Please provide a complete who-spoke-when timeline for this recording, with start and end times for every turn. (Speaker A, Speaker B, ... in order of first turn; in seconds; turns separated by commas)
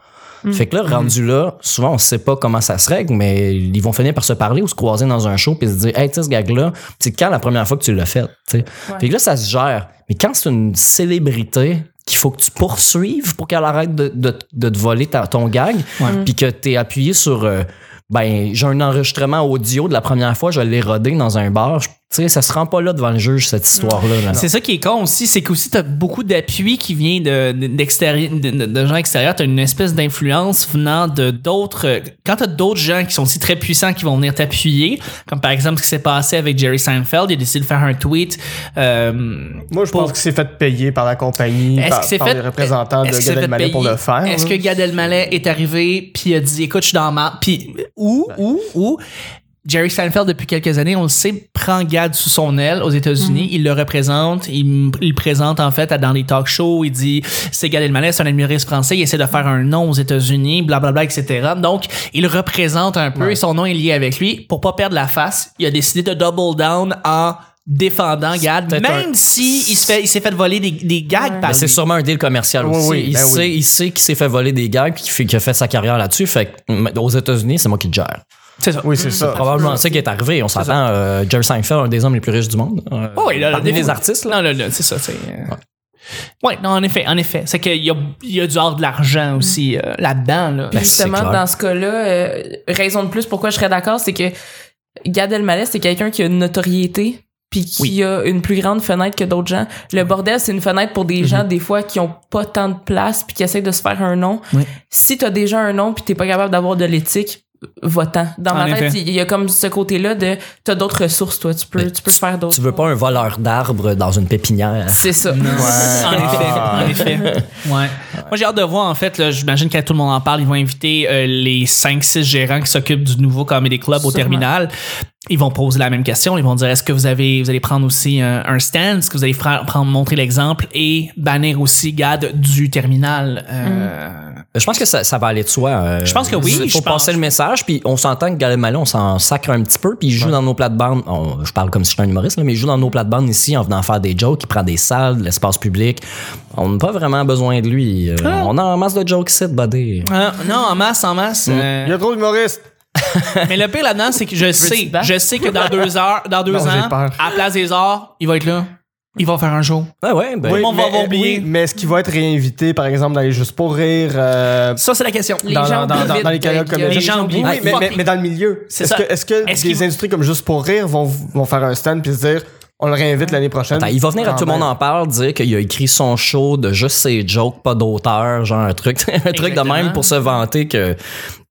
Speaker A: 0.5-24.4, Speaker B: 0.8-1.1, Speaker C: 23.8-24.1, Speaker B: 24.3-40.1, Speaker D: 39.7-44.6, Speaker B: 41.7-49.0, Speaker B: 49.6-71.8, Speaker C: 53.2-53.5, Speaker D: 68.7-69.0, Speaker C: 71.2-71.5, Speaker A: 71.4-78.2, Speaker D: 72.6-73.5, Speaker B: 78.6-79.9, Speaker D: 78.8-79.5, Speaker A: 79.1-84.3, Speaker B: 80.5-80.8, Speaker B: 83.1-85.6, Speaker B: 86.4-91.0, Speaker A: 90.7-91.4, Speaker C: 90.8-94.3, Speaker C: 95.0-112.8, Speaker B: 108.5-109.0, Speaker A: 111.8-115.4, Speaker C: 114.9-116.2, Speaker B: 115.3-124.7, Speaker D: 115.5-117.0, Speaker A: 116.2-117.4, Speaker C: 124.0-124.5, Speaker B: 125.3-134.4, Speaker C: 133.6-133.9, Speaker A: 134.5-150.1, Speaker B: 136.0-137.3, Speaker B: 148.2-148.5, Speaker B: 150.0-151.9, Speaker D: 151.8-152.6, Speaker A: 153.0-153.4, Speaker B: 153.4-159.9, Speaker C: 154.6-155.1, Speaker D: 156.5-157.2, Speaker A: 160.0-160.7, Speaker D: 160.4-164.8, Speaker B: 160.5-161.5, Speaker B: 164.8-166.3, Speaker C: 165.4-167.5, Speaker D: 165.4-174.7, Speaker B: 166.8-168.1, Speaker A: 167.4-167.9, Speaker B: 168.7-169.9, Speaker A: 173.7-181.0, Speaker B: 179.3-180.1